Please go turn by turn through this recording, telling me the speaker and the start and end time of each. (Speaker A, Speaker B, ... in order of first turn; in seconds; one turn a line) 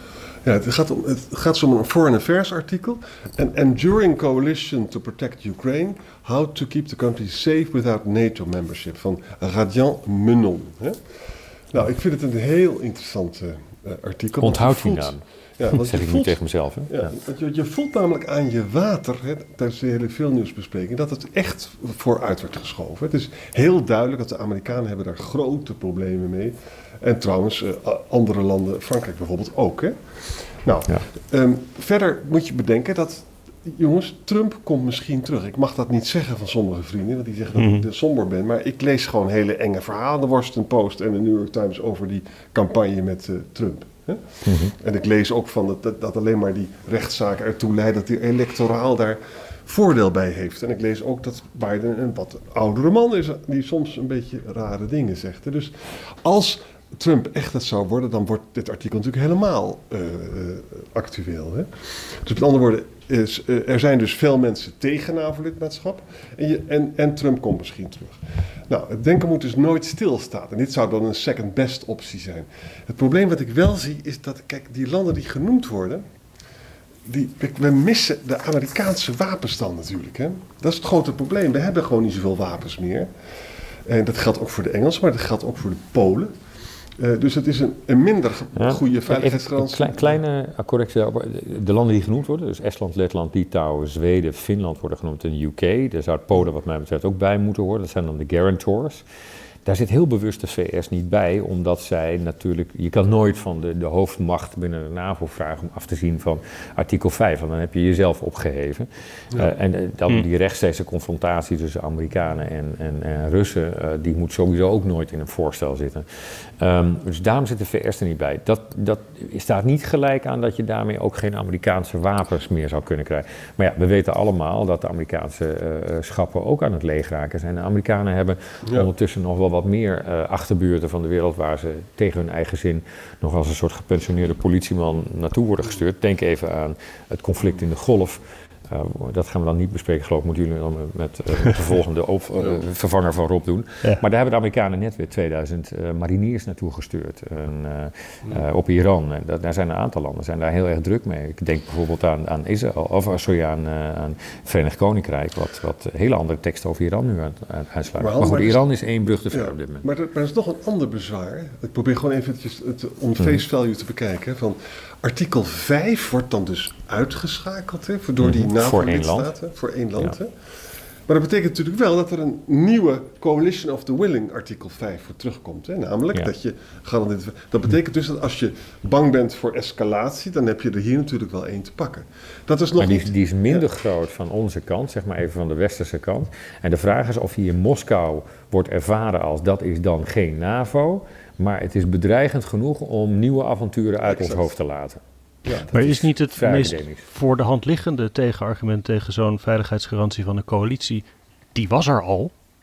Speaker A: 0.4-16.4
Speaker B: 14.4-17.1
Speaker A: 16.9-76.0
Speaker C: 37.5-37.9
Speaker B: 44.5-44.7
Speaker A: 77.1-83.1
Speaker A: 83.8-86.3
Speaker A: 87.0-90.2
Speaker B: 88.5-99.0
Speaker B: 99.7-116.1
Speaker B: 116.6-159.9
Speaker A: 158.0-158.7
Speaker A: 159.3-170.5
Speaker B: 168.2-169.3
Speaker A: 171.1-183.7
Speaker B: 182.8-195.0
Speaker A: 194.1-194.4
Speaker A: 195.4-195.7
Speaker B: 195.6-197.1
Speaker C: 195.7-202.3